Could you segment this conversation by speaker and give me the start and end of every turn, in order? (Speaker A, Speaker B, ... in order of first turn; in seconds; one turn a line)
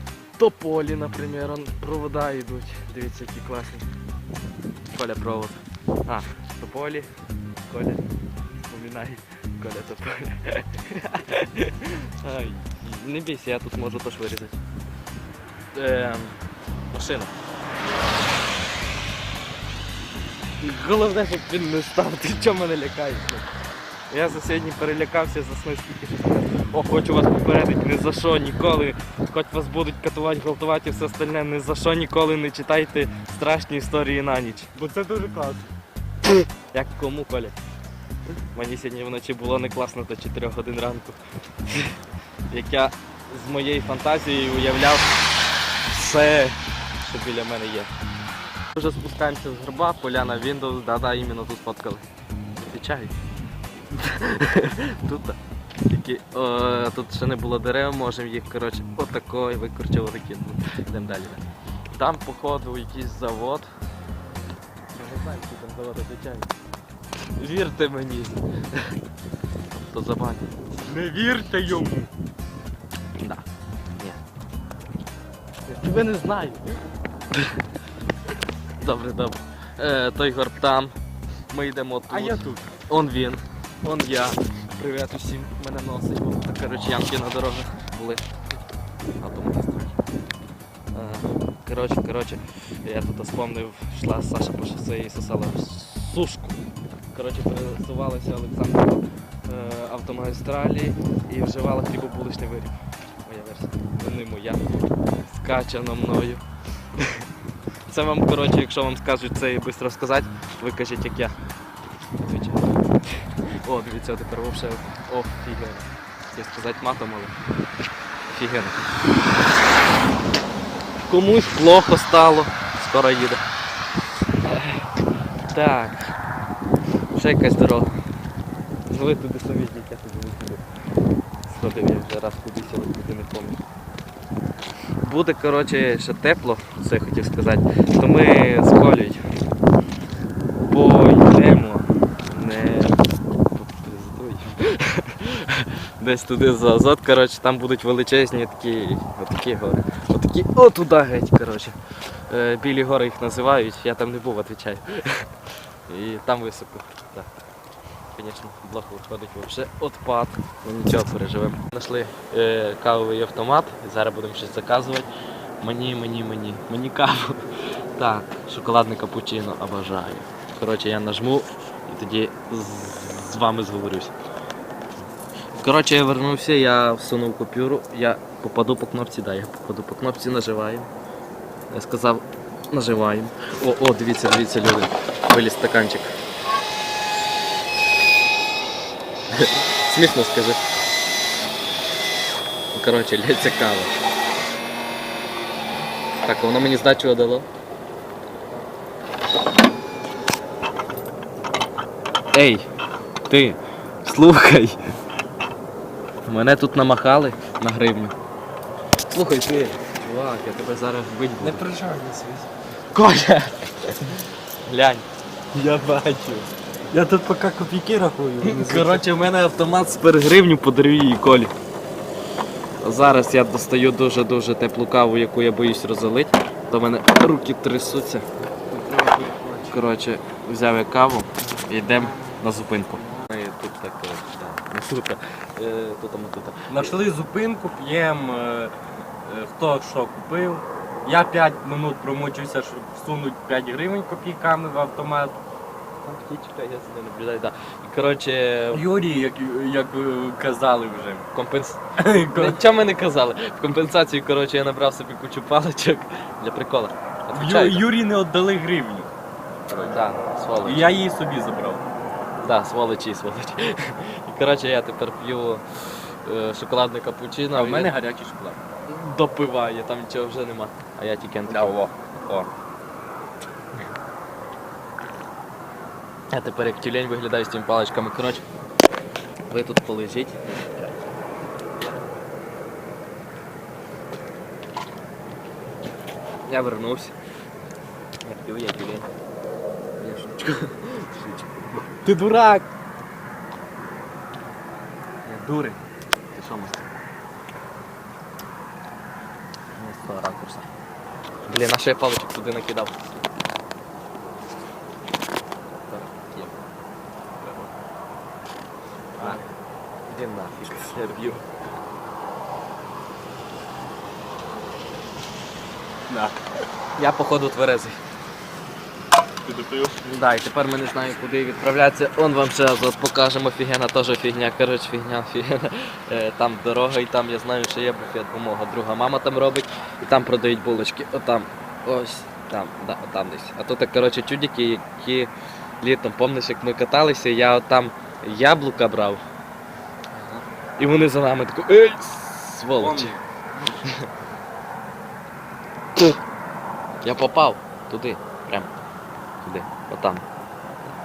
Speaker A: 0.4-3.9
Speaker A: 4.9-7.1
Speaker A: 7.7-8.0
Speaker A: 8.6-14.6
Speaker A: 15.7-17.3
Speaker A: 20.6-23.5
Speaker A: 24.1-34.7
Speaker B: 34.7-35.7
Speaker A: 36.7-37.6
Speaker A: 38.5-42.0
Speaker A: 42.5-45.1
Speaker A: 45.9-47.9
Speaker A: 48.7-53.1
Speaker A: 53.9-63.7
Speaker A: 64.9-66.5
Speaker A: 67.4-69.0
Speaker A: 69.7-70.5
Speaker B: 70.8-72.1
Speaker A: 75.7-76.7
Speaker A: 78.8-80.9
Speaker A: 81.5-88.3
Speaker B: 82.1-82.6
Speaker A: 89.2-90.0
Speaker A: 90.9-96.6
Speaker A: 97.1-104.7
Speaker A: 105.3-106.4
Speaker A: 107.0-107.3
Speaker A: 107.9-111.4
Speaker A: 112.2-117.3
Speaker A: 118.3-118.8
Speaker A: 121.1-123.4
Speaker A: 124.4-124.9
Speaker A: 125.5-126.1
Speaker A: 127.1-128.0
Speaker A: 128.9-130.6
Speaker A: 131.5-133.6
Speaker A: 135.0-139.2
Speaker A: 140.7-143.0
Speaker A: 143.5-151.8
Speaker A: 152.3-155.3
Speaker A: 155.9-157.3
Speaker A: 158.2-165.1
Speaker A: 165.6-167.4
Speaker A: 168.0-174.1
Speaker A: 175.5-180.9
Speaker A: 181.7-186.2
Speaker A: 189.3-190.6
Speaker A: 192.7-193.9
Speaker A: 196.2-197.5
Speaker A: 202.3-202.7
Speaker A: 203.3-204.8
Speaker A: 206.2-208.1
Speaker A: 209.1-211.6
Speaker B: 211.4-212.5
Speaker A: 212.9-216.5
Speaker B: 216.9-219.0
Speaker A: 218.4-221.5
Speaker A: 222.8-228.2
Speaker B: 228.7-229.8
Speaker A: 229.7-237.0
Speaker B: 231.9-232.3
Speaker B: 236.7-245.3
Speaker A: 246.0-248.8
Speaker B: 248.7-251.2
Speaker A: 251.3-257.9
Speaker B: 252.0-252.6
Speaker B: 257.3-259.1
Speaker B: 259.7-260.0
Speaker A: 259.7-260.9
Speaker B: 260.6-261.8
Speaker A: 262.4-267.9
Speaker B: 267.5-268.6
Speaker A: 268.9-271.7
Speaker B: 271.5-272.5
Speaker A: 276.3-278.4
Speaker A: 279.5-280.9
Speaker A: 286.5-287.1
Speaker A: 288.2-289.1
Speaker A: 290.0-292.7
Speaker B: 295.2-295.8
Speaker B: 296.4-296.8
Speaker A: 299.8-300.7
Speaker A: 301.5-303.0
Speaker A: 305.9-306.5
Speaker B: 309.2-309.4
Speaker A: 310.1-311.5
Speaker B: 316.1-316.3
Speaker A: 317.0-318.0
Speaker B: 319.4-320.0
Speaker A: 320.0-335.3
Speaker A: 335.8-339.2
Speaker A: 340.8-343.1
Speaker B: 342.8-343.8
Speaker A: 347.0-348.7
Speaker A: 349.4-350.2